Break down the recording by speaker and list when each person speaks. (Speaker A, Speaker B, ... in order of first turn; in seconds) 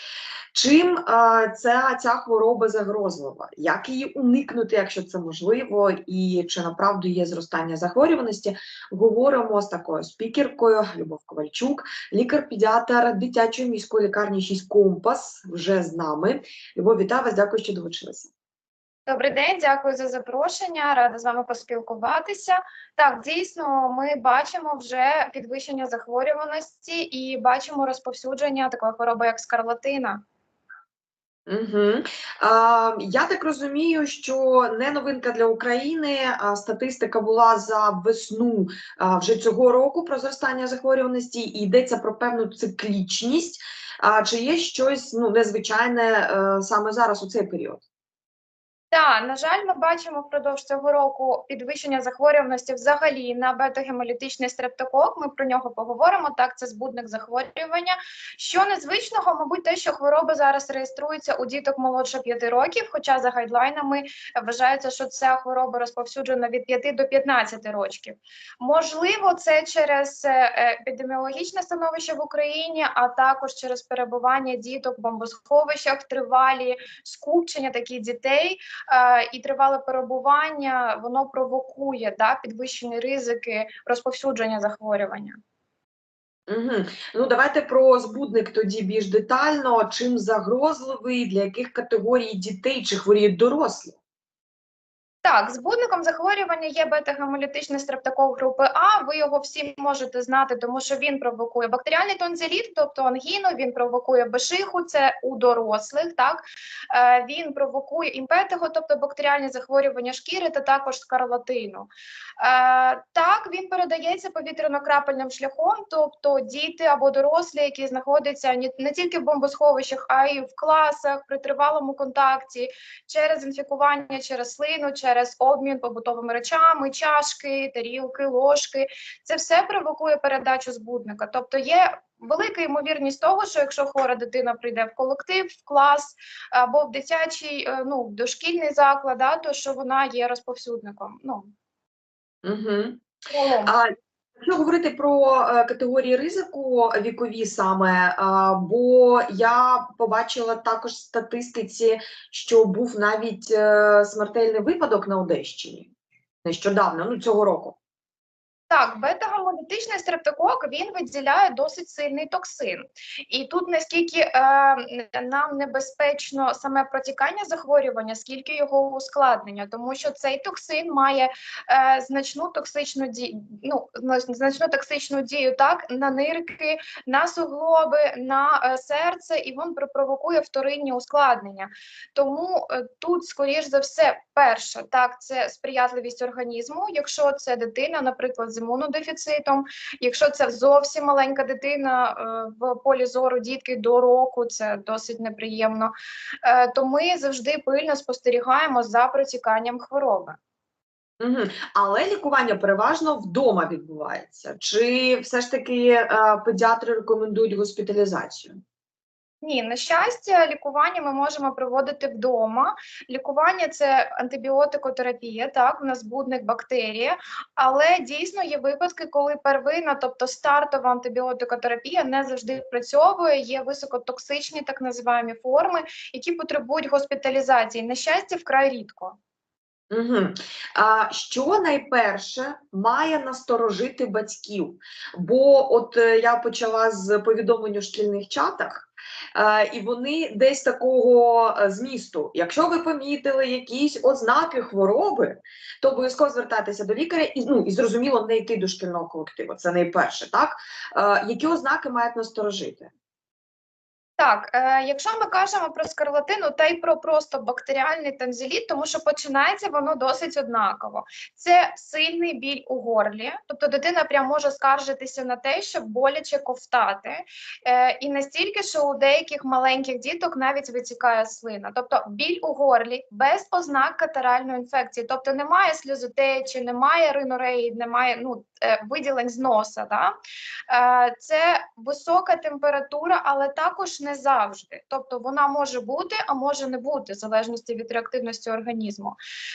Speaker A: 0.5-18.3, 31.5-47.8, 86.5-94.0, 142.4-143.0, 143.7-143.9, 144.4-155.9, 156.4-157.8, 201.2-208.6, 229.9-252.9
Speaker B: 19.1-30.2, 48.9-85.4, 95.2-141.5, 143.3-143.8, 158.7-195.9, 196.4-200.4, 209.4-229.2, 254.2-280.1, 280.7-289.2